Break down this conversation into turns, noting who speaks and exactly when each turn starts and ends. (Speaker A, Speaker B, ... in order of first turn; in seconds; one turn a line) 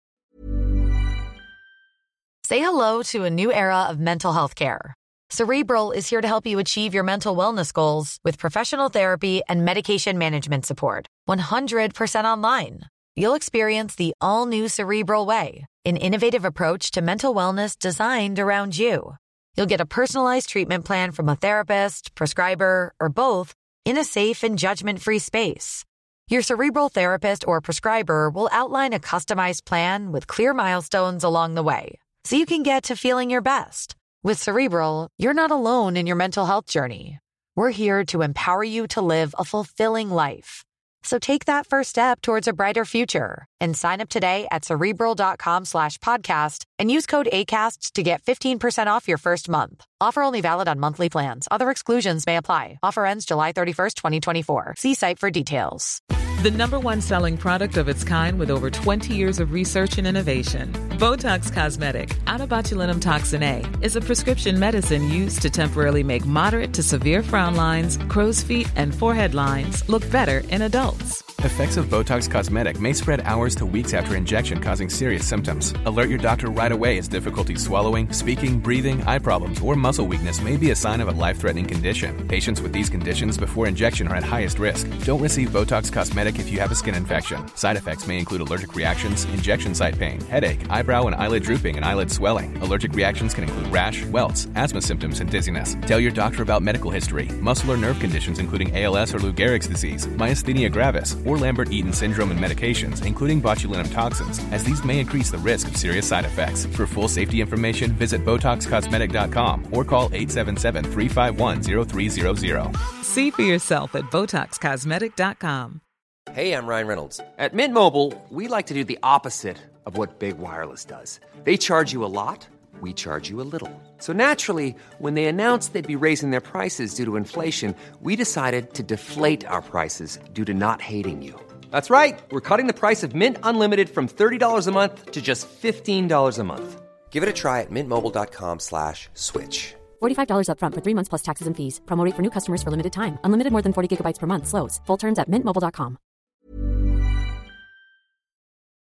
Speaker A: 2.5-56.0
Speaker B: 56.4-71.2
Speaker C: 71.4-112.8
Speaker B: 113.0-115.8
Speaker D: 116.3-139.9
Speaker E: 140.0-146.0